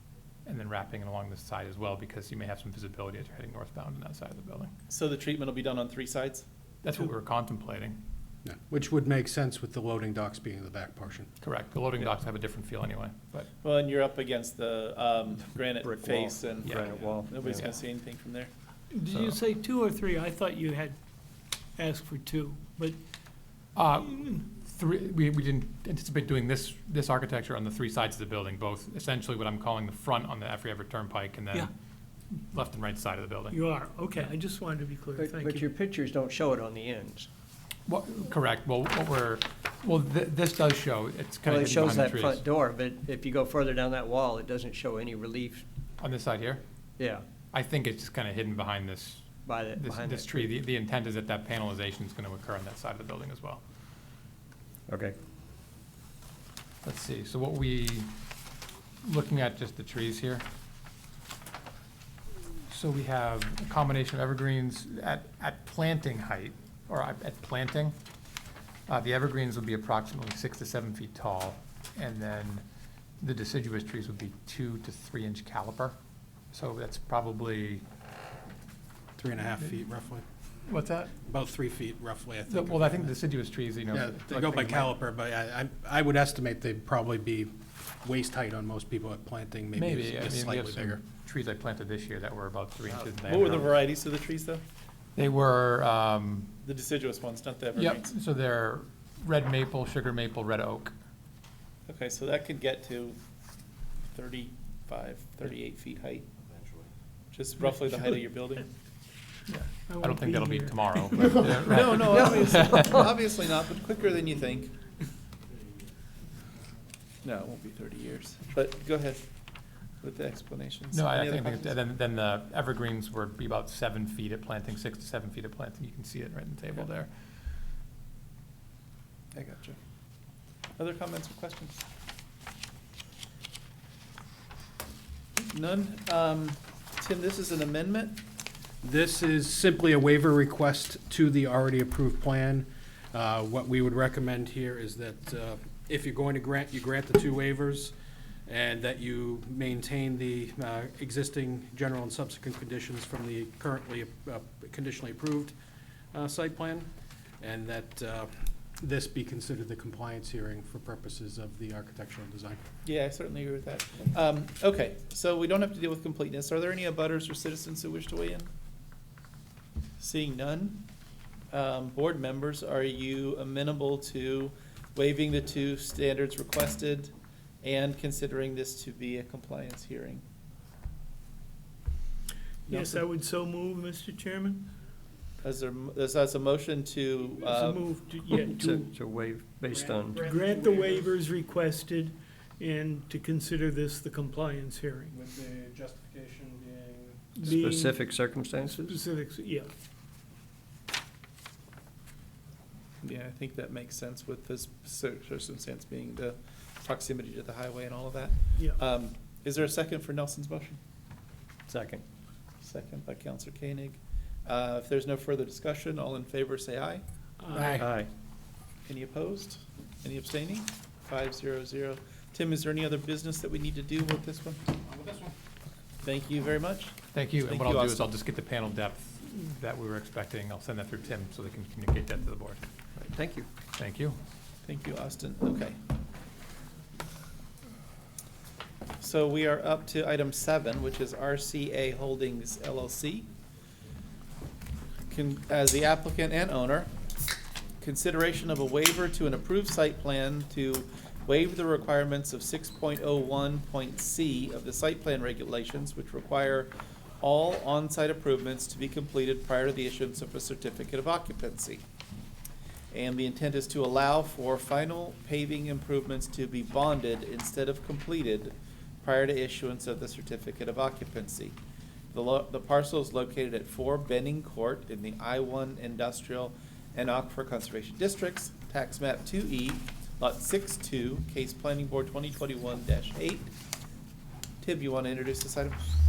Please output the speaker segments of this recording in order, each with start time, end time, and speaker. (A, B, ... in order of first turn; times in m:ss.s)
0:00.5-0:04.7 A
0:04.9-0:06.5 B
0:06.8-0:08.0 A
0:08.4-0:11.3 C
0:11.4-0:13.5 A
0:13.6-0:18.5 B
0:15.8-0:17.7 D
0:16.6-0:16.9 A
0:18.9-0:21.0 E
0:21.8-0:23.0 E
0:23.8-0:31.7 A
0:32.4-0:33.6 A
0:33.5-0:35.7 E
0:35.2-0:37.3 D
0:37.9-0:42.4 A
0:41.4-0:45.6 D
0:46.0-0:46.6 A
0:47.0-0:47.2 D
0:47.5-0:53.6 A
0:49.4-0:50.5 D
0:54.9-0:55.2 D
0:56.8-0:58.1 A
0:59.0-1:00.4 A
1:02.7-1:08.0 A
1:08.9-1:12.6 A
1:13.2-1:16.0 A
1:16.5-1:17.8 A
1:19.2-1:20.2 C
1:20.7-1:21.1 A
1:21.2-1:23.2 C
1:22.5-1:24.9 A
1:23.9-1:31.0 C
1:29.8-1:33.7 A
1:32.9-1:33.3 D
1:33.3-1:34.6 B
1:35.2-1:36.5 A
1:36.6-1:38.1 B
1:37.8-1:40.9 A
1:41.9-1:43.2 B
1:44.1-1:46.3 B
1:47.3-1:48.7 B
1:49.5-1:52.9 A
1:49.7-1:51.7 E
1:51.6-1:54.7 B
1:52.0-1:53.1 D
1:57.2-1:59.2 B
2:00.0-2:01.8 B
2:00.9-2:07.1 A
2:09.3-2:09.8 B
2:10.8-2:11.8 B
2:15.4-2:18.2 B
2:18.8-2:27.9 C
2:28.5-2:35.6 C
2:36.1-2:36.9 C
2:37.4-2:42.6 C
2:42.8-2:48.5 B
2:50.0-2:50.9 B
2:51.5-3:00.2 B
3:02.7-3:03.0 B
3:02.7-3:04.7 E
3:05.4-3:07.9 B
3:07.4-3:08.9 E
3:08.3-3:10.2 D
3:09.6-3:11.2 C
3:10.2-3:15.1 E
3:15.1-3:17.5 C
3:17.4-3:18.0 E
3:17.4-3:19.0 D
3:18.6-3:19.7 E
3:23.0-3:30.8 B
3:28.5-3:28.8 E
3:31.7-3:32.0 D
3:32.6-3:37.0 B
3:37.4-3:37.8 E
3:37.5-3:37.9 C
3:37.8-3:38.1 D
3:38.9-3:44.6 B
3:44.9-3:45.3 C
3:46.0-3:48.1 B
3:47.1-3:52.6 A
3:53.0-3:53.5 D
3:53.7-3:54.2 A
3:54.6-3:55.8 B
3:59.0-4:03.3 B
4:05.1-4:06.9 B
4:07.8-4:21.8 B
4:22.9-4:31.6 B
4:32.1-4:43.5 B
4:44.6-4:45.9 B